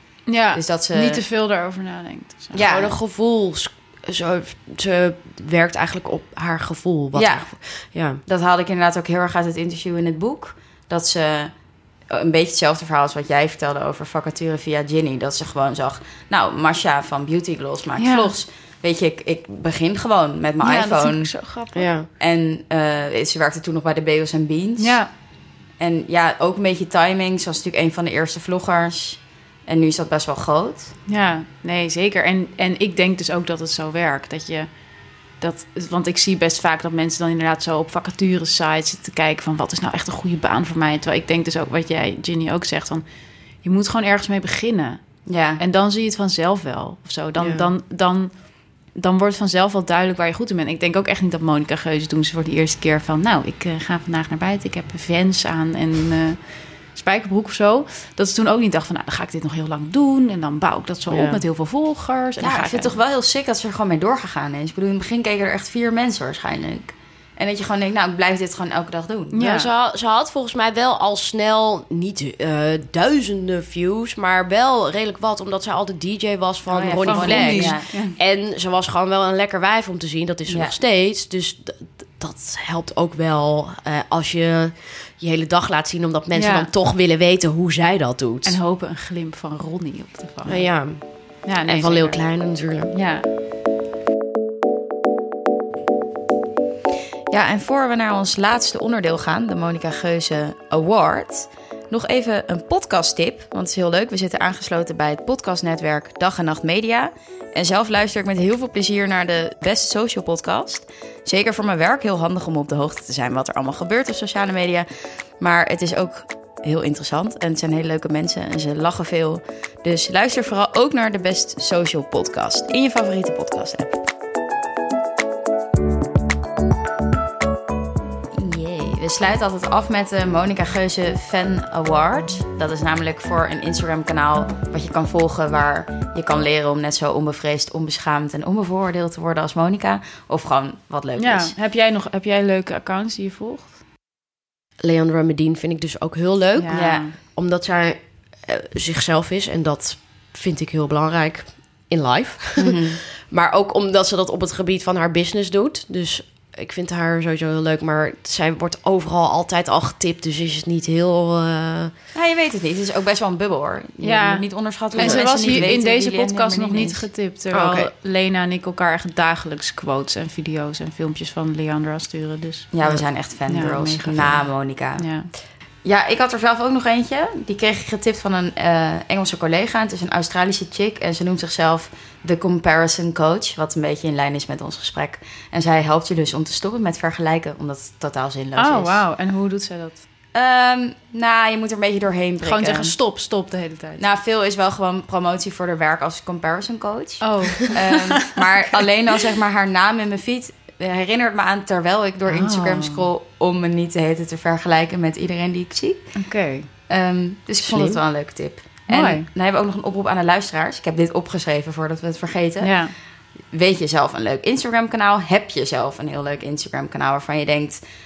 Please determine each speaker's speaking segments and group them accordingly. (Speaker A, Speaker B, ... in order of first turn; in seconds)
Speaker A: 0.3-2.6, 18.0-18.3, 20.6-21.9, 24.8-25.1, 31.1-34.7, 35.4-43.0, 43.6-63.0, 69.3-69.7, 76.7-78.2, 86.4-86.7, 88.4-90.7, 91.4-92.2, 92.9-93.3, 141.2-143.7, 146.6-147.2, 164.0-172.7, 173.5-175.3, 188.6-190.0, 192.4-194.0, 197.2-198.8, 202.3-203.1, 206.2-206.7, 208.9-209.3, 212.6-212.9
Speaker B: 0.5-1.2, 2.5-2.9, 7.1-7.5, 8.3-11.5, 12.1-21.3, 22.2-25.0, 25.8-30.9, 45.3-45.6, 62.4-69.4, 76.9-77.9, 80.5-80.8, 97.3-114.9, 115.4-124.0, 128.3-141.5, 146.7-147.0, 152.6-153.0, 162.1-167.1, 172.7-175.1, 175.8-189.0, 190.3-192.9, 194.0-206.2, 206.9-212.8, 213.5-217.8
Speaker C: 2.7-8.2, 21.7-22.1, 47.4-47.7, 61.1-61.4, 69.4-88.6, 90.5-92.9, 144.8-161.9, 164.9-165.7, 167.5-167.9, 207.6-208.0